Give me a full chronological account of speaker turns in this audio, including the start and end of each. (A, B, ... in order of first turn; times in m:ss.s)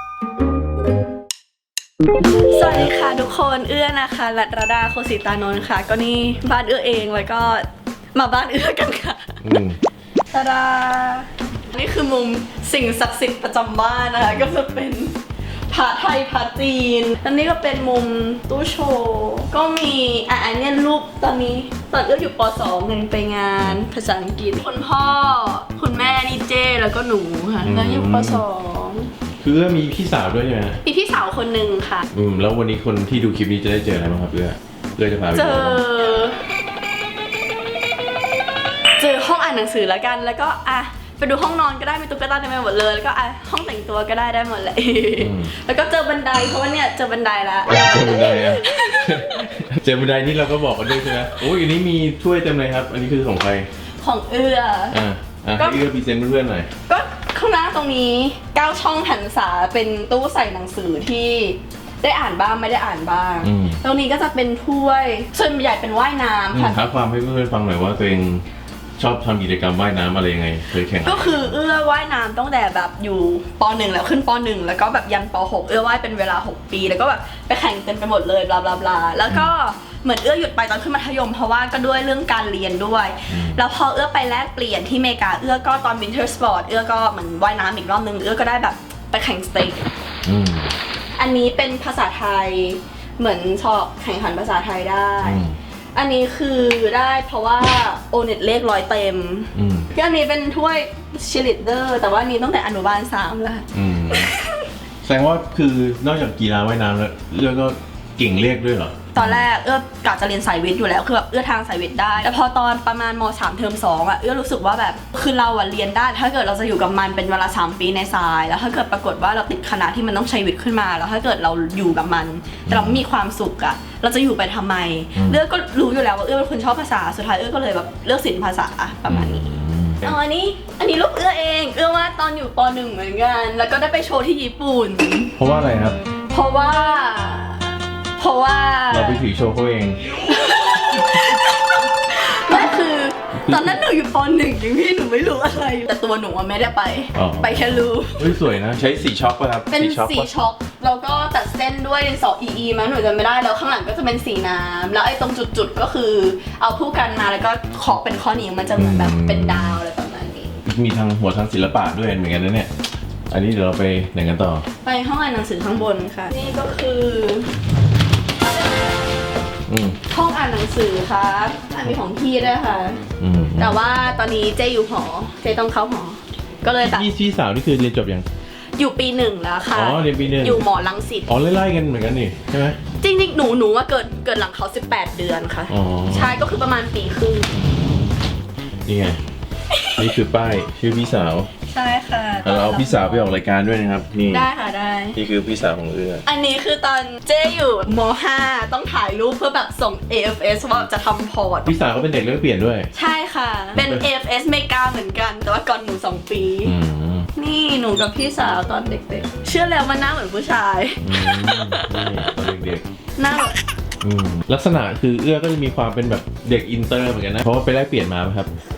0:02.4-0:09.6 A
0:09.4-0:09.8 B
0:10.3-0:15.2 A
0:15.7-0:29.1 A
0:27.6-0:28.4 B
0:29.4-0:30.8 B
0:30.8-0:32.1 A
0:32.1-0:35.8 B
0:35.3-0:36.5 A
0:39.0-0:49.5 A
0:45.2-0:45.5 B
0:47.7-0:53.7 B
0:51.0-0:51.4 A
0:54.0-0:55.0 A
0:54.9-0:56.7 B
0:55.6-0:55.8 A
0:56.9-1:06.9 A
1:03.4-1:03.8 B
1:06.5-1:08.4 B
1:09.0-1:11.5 B
1:11.0-1:29.9 A
1:23.3-1:23.6 B
1:30.2-1:30.7 B
1:31.2-1:44.7 A
1:35.2-1:35.6 B
1:39.6-1:39.9 B
1:43.7-1:44.3 B
1:45.0-1:49.4 B
1:49.1-2:09.5 A
2:02.7-2:03.0 B
2:05.2-2:05.4 B
2:09.1-2:10.1 B
2:10.0-2:15.4 A
2:15.4-2:16.0 B
2:16.3-2:19.2 A
2:18.9-2:20.2 B
2:20.2-2:28.5 A
2:23.5-2:23.8 B
2:27.2-2:30.3 B
2:29.7-2:40.6 A
2:38.8-2:39.8 B
2:40.6-2:42.7 B
2:43.3-2:44.6 B
2:44.8-2:47.6 A
2:49.7-2:50.0 B
2:50.1-2:53.0 A
2:53.2-2:53.8 B
2:53.6-2:57.1 A
2:56.8-2:58.3 B
2:58.8-3:01.3 A
2:59.7-3:00.7 B
3:01.3-3:02.8 B
3:03.0-3:07.5 A
3:05.7-3:06.4 B
3:07.6-3:08.2 B
3:08.9-3:09.2 B
3:09.7-3:10.1 A
3:10.0-3:11.5 B
3:11.7-3:13.3 A
3:12.4-3:14.5 B
3:14.3-3:15.2 A
3:15.1-3:16.2 B
3:16.2-3:21.7 A
3:21.6-3:22.9 B
3:22.9-3:26.8 A
3:23.8-3:24.0 B
3:26.6-3:27.3 B
3:27.4-3:32.4 A
3:31.0-3:32.9 B
3:33.2-3:33.7 A
3:34.0-3:38.5 B